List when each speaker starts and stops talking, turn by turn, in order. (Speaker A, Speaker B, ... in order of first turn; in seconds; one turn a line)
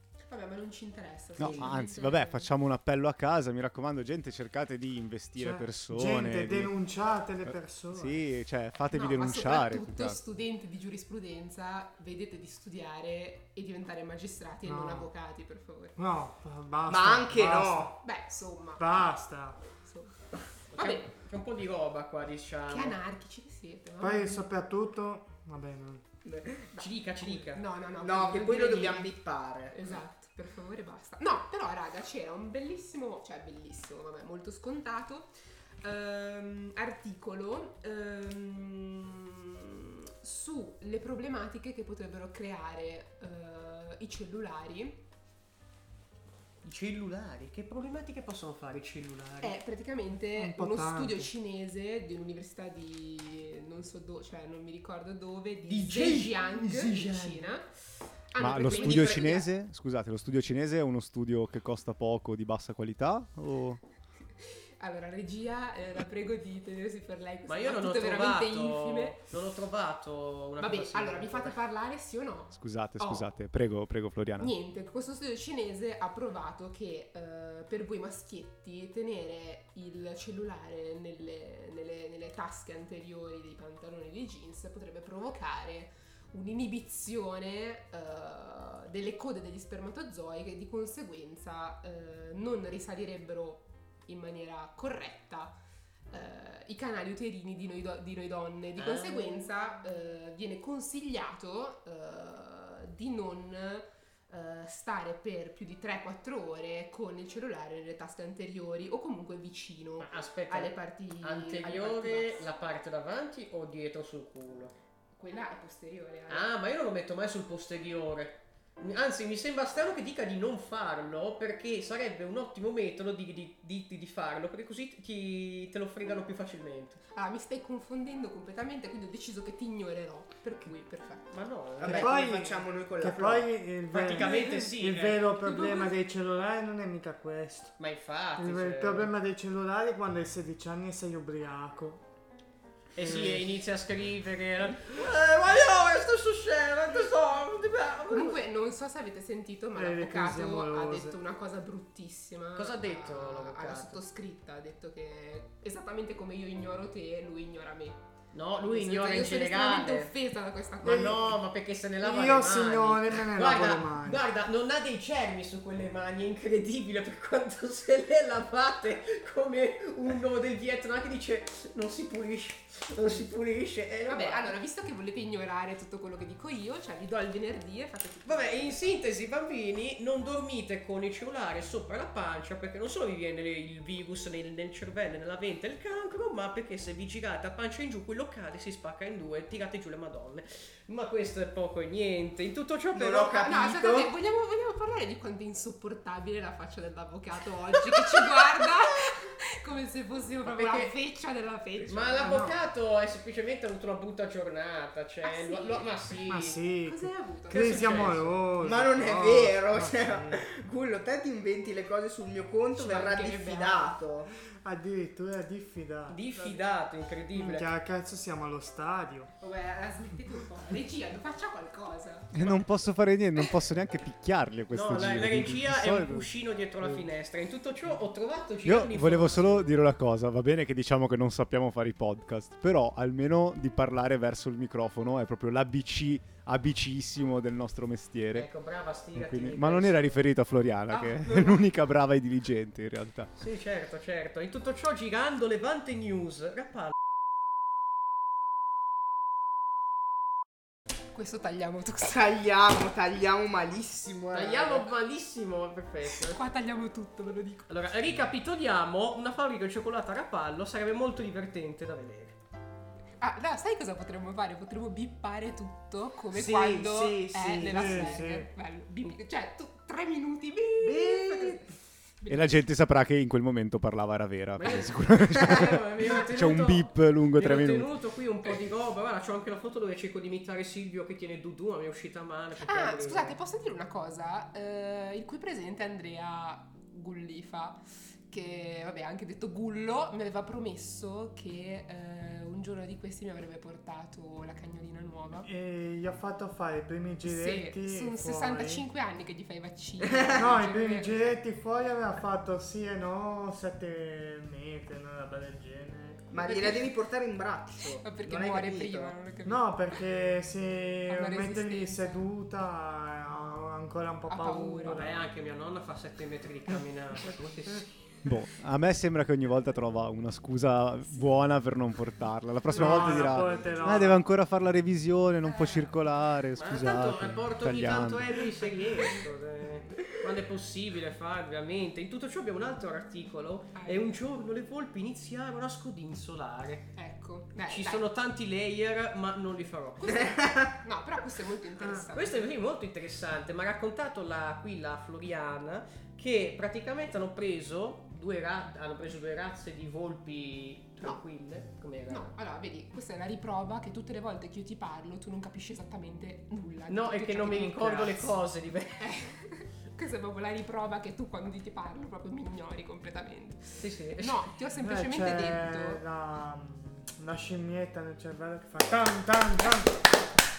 Speaker A: 0.3-2.5
Speaker B: 1.4-6.7
Speaker C: 1.4-1.8
Speaker D: 5.4-8.2
Speaker B: 7.5-10.2
Speaker A: 8.9-16.0
Speaker D: 14.6-15.1
Speaker D: 15.9-18.0
Speaker C: 16.9-17.9
Speaker A: 18.0-19.0
Speaker D: 18.8-19.6
Speaker A: 19.8-20.2
Speaker E: 20.7-23.0
Speaker A: 20.7-21.1
Speaker A: 22.7-24.4
Speaker D: 24.0-26.1
Speaker C: 26.2-26.7
Speaker A: 26.7-29.1
Speaker E: 26.8-27.6
Speaker C: 28.0-29.8
Speaker A: 29.7-35.3
Speaker A: 35.8-45.0
Speaker E: 46.6-49.6
Speaker A: 49.4-57.7
Speaker D: 50.3-51.3
Speaker E: 55.7-57.5
Speaker A: 58.3-59.5
Speaker B: 58.4-63.8
Speaker E: 58.7-59.1
Speaker A: 64.8-69.2
Speaker E: 67.5-71.6
Speaker A: 70.6-73.3
Speaker B: 72.5-74.5
Speaker A: 74.4-95.6
Speaker A: 96.1-112.5
Speaker E: 98.8-99.5
Speaker E: 110.0-114.7
Speaker A: 115.2-116.5
Speaker E: 116.3-127.0
Speaker A: 127.1-131.3
Speaker E: 131.3-132.1
Speaker C: 131.8-133.6
Speaker D: 131.8-137.7
Speaker E: 133.9-135.3
Speaker A: 134.2-134.6
Speaker A: 135.4-135.9
Speaker E: 137.8-139.1
Speaker D: 138.4-142.0
Speaker E: 142.9-148.4
Speaker D: 143.0-143.5
Speaker A: 148.1-158.0
Speaker D: 149.7-151.2
Speaker E: 152.6-154.0
Speaker E: 158.3-160.1
Speaker A: 158.7-161.3
Speaker E: 160.8-174.5
Speaker D: 160.8-161.3
Speaker D: 162.0-164.2
Speaker A: 174.1-178.8
Speaker E: 178.2-193.5
Speaker C: 192.9-194.1
Speaker A: 193.4-202.4
Speaker E: 200.4-200.9
Speaker E: 201.9-206.6
Speaker D: 202.2-202.6
Speaker A: 205.2-205.9
Speaker D: 206.3-210.4
Speaker A: 206.8-208.2
Speaker E: 207.5-208.4
Speaker C: 208.6-214.3
Speaker A: 212.7-213.9
Speaker D: 214.4-216.6
Speaker E: 216.1-217.7
Speaker D: 217.3-219.3
Speaker A: 219.4-222.6
Speaker B: 222.3-226.3
Speaker E: 224.7-229.8
Speaker B: 228.6-238.5
Speaker E: 238.3-240.2
Speaker B: 239.1-243.3
Speaker A: 240.9-241.7
Speaker E: 243.4-246.9
Speaker A: 251.1-252.2
Speaker C: 252.1-254.9
Speaker E: 254.3-256.4
Speaker A: 256.3-257.7
Speaker E: 257.7-262.4
Speaker A: 263.2-271.6
Speaker C: 266.3-268.3
Speaker D: 267.6-268.5
Speaker C: 270.8-271.6
Speaker A: 272.2-272.5
Speaker B: 272.3-277.9
Speaker E: 274.6-283.4
Speaker A: 282.6-295.5
Speaker D: 295.4-298.8
Speaker A: 297.2-301.4
Speaker C: 300.0-300.4
Speaker D: 300.4-306.3
Speaker C: 306.3-309.2
Speaker A: 306.4-306.9
Speaker A: 307.8-309.8
Speaker D: 309.4-315.3
Speaker A: 311.1-312.2
Speaker A: 314.3-315.1
Speaker E: 314.9-318.0
Speaker B: 318.2-328.4
Speaker D: 322.7-324.2
Speaker A: 322.8-324.1
Speaker A: 325.4-325.9
Speaker E: 326.5-336.9
Speaker A: 333.8-334.1
Speaker A: 336.9-338.0
Speaker E: 337.7-340.3
Speaker A: 340.0-342.4
Speaker C: 340.1-340.7
Speaker E: 342.1-352.3
Speaker A: 352.1-358.4
Speaker E: 356.9-359.0
Speaker A: 359.0-366.0
Speaker E: 363.8-364.4
Speaker D: 364.8-370.0